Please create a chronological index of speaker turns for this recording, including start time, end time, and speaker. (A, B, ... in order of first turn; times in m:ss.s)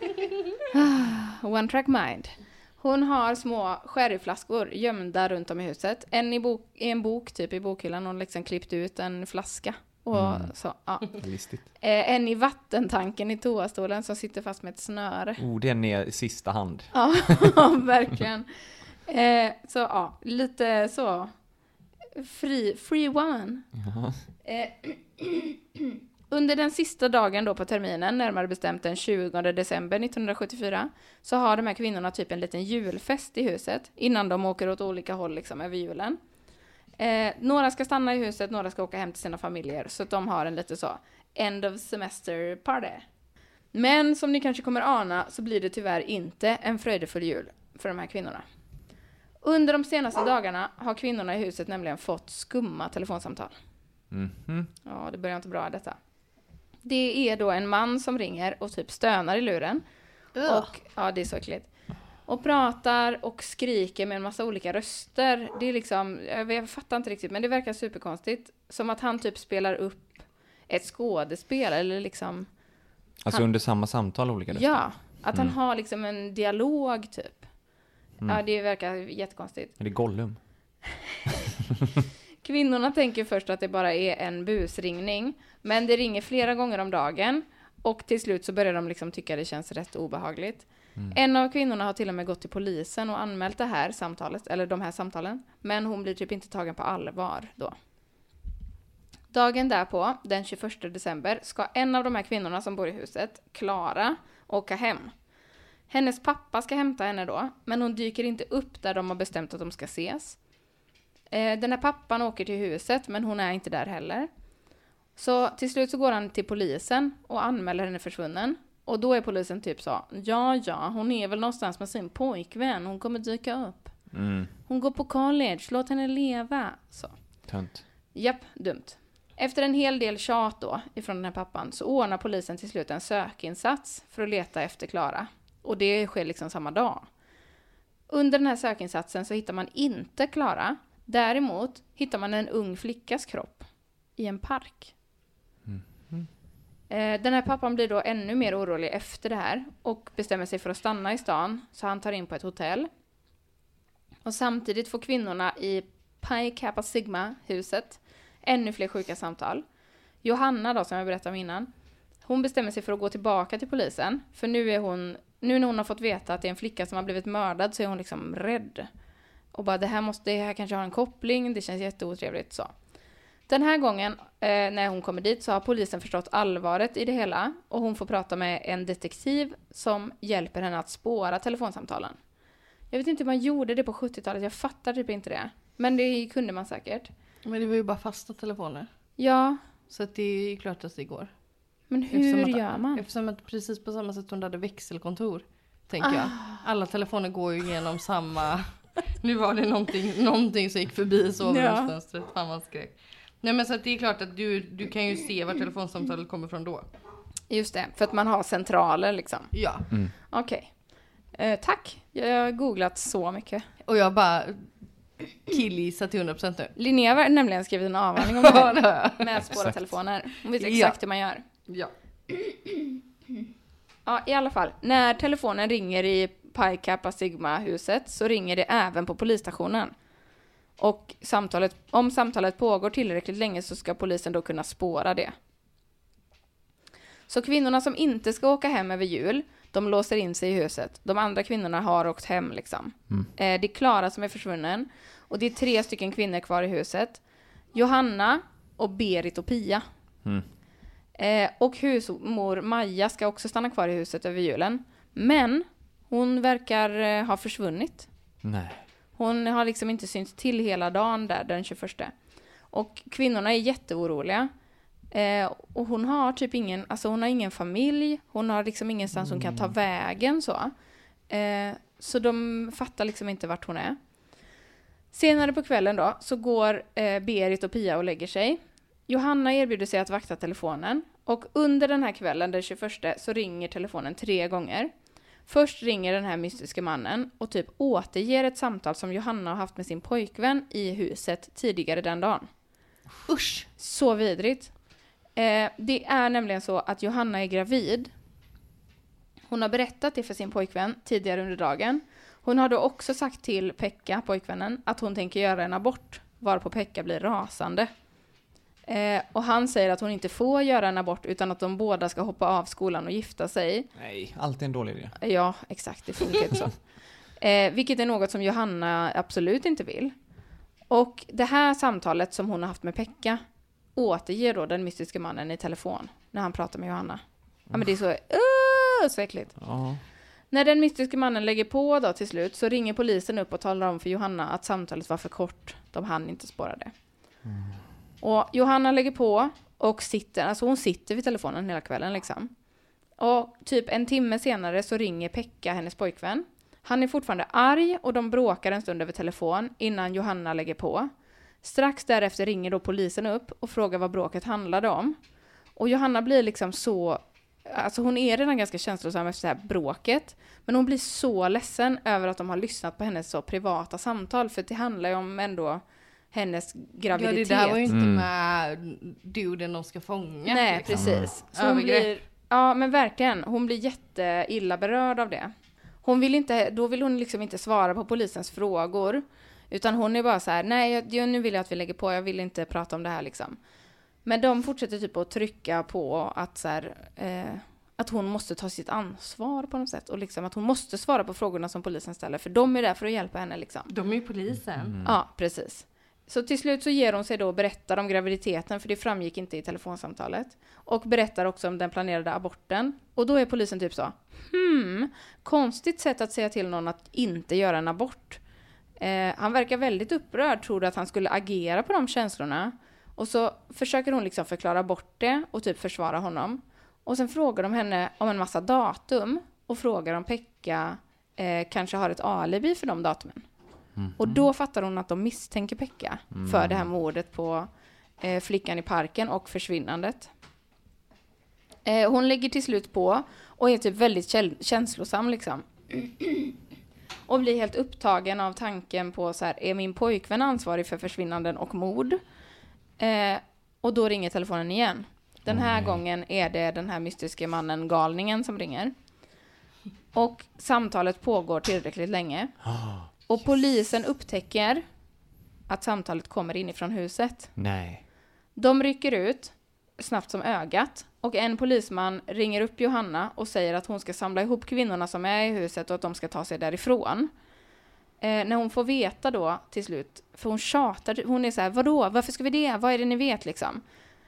0:00.7-0:15.4 A
0:10.1-0:11.7 B
0:15.4-0:16.9 B
0:16.9-0:21.3 A
0:22.2-0:23.6 A
0:23.8-0:24.2 B
0:24.4-0:36.2 A
0:37.0-0:43.0 A
0:43.7-0:48.4 A
0:49.4-0:53.6 A
0:54.1-0:54.7 B
0:54.8-0:56.0 A
0:56.8-0:59.8 A
1:00.4-1:01.7 A
1:02.2-1:12.5 A
1:13.2-1:15.5 B
1:14.5-1:17.5 A
1:18.2-1:19.7 A
1:19.8-1:20.4 B
1:22.4-1:37.7 A
1:39.3-1:45.1 A
1:45.9-1:50.4 A
1:51.3-1:54.3 A
1:55.2-2:04.1 A
2:04.1-2:04.5 B
2:04.6-2:07.5 A
2:07.5-2:07.8 B
2:08.1-2:17.0 A
2:18.1-2:24.9 A
2:25.6-2:26.3 B
2:26.9-2:32.9 A
2:34.2-2:39.6 A
2:40.2-2:41.7 A
2:42.2-2:48.9 A
2:49.5-2:52.7 A
2:53.5-3:02.2 A
3:02.9-3:07.1 A
3:07.4-3:08.9 C
3:09.2-3:09.6 A
3:09.9-3:11.3 C
3:11.9-3:13.0 A
3:12.1-3:26.9 C
3:16.0-3:16.6 A
3:21.5-3:21.9 A
3:27.5-3:30.8 A
3:29.5-3:29.8 C
3:31.3-3:33.6 A
3:33.9-3:34.7 C
3:35.4-3:36.7 C
3:36.8-3:41.4 A
3:38.2-3:39.2 C
3:39.3-3:40.0 B
3:40.6-3:41.0 C
3:42.3-3:43.0 A
3:44.0-3:49.9 A
3:50.8-3:55.3 A
3:57.3-4:07.2 A
4:07.7-4:09.8 A
4:11.2-4:18.1 A
4:18.4-4:18.8 B
4:19.2-4:22.1 A
4:22.7-4:24.5 A
4:25.1-4:30.7 A
4:29.2-4:29.7 B
4:31.3-4:34.0 A
4:35.1-4:44.9 A
4:45.4-4:52.5 A
4:53.3-4:53.6 C
4:53.8-4:54.8 A
4:55.3-4:58.1 A
4:59.5-5:07.9 A
5:08.8-5:13.9 A
5:14.0-5:15.2 B
5:15.2-5:20.1 A
5:20.9-5:23.4 A
5:23.9-5:29.6 A
5:29.6-5:30.0 B
5:30.5-5:36.9 A
5:37.4-5:37.9 B
5:38.2-5:42.5 A
5:43.2-5:51.1 A
5:51.6-5:55.2 A
5:55.7-6:08.0 A
6:07.1-6:12.1 C
6:07.9-6:08.3 B
6:10.4-6:15.5 A
6:10.9-6:11.3 B
6:16.0-6:23.6 A
6:24.2-6:33.9 A
6:33.9-6:34.9 C
6:34.8-6:35.2 B
6:35.0-6:48.4 A
6:49.0-7:03.4 A
7:04.0-7:04.5 B
7:04.2-7:10.3 A
7:06.3-7:06.9 B
7:11.8-7:16.5 A
7:17.3-7:22.2 A
7:23.0-7:28.9 A
7:25.5-7:26.0 B
7:30.1-7:34.8 A
7:32.6-7:33.1 B
7:35.7-7:37.6 A
7:37.6-7:38.0 B
7:38.5-7:47.3 A
7:48.2-7:53.8 A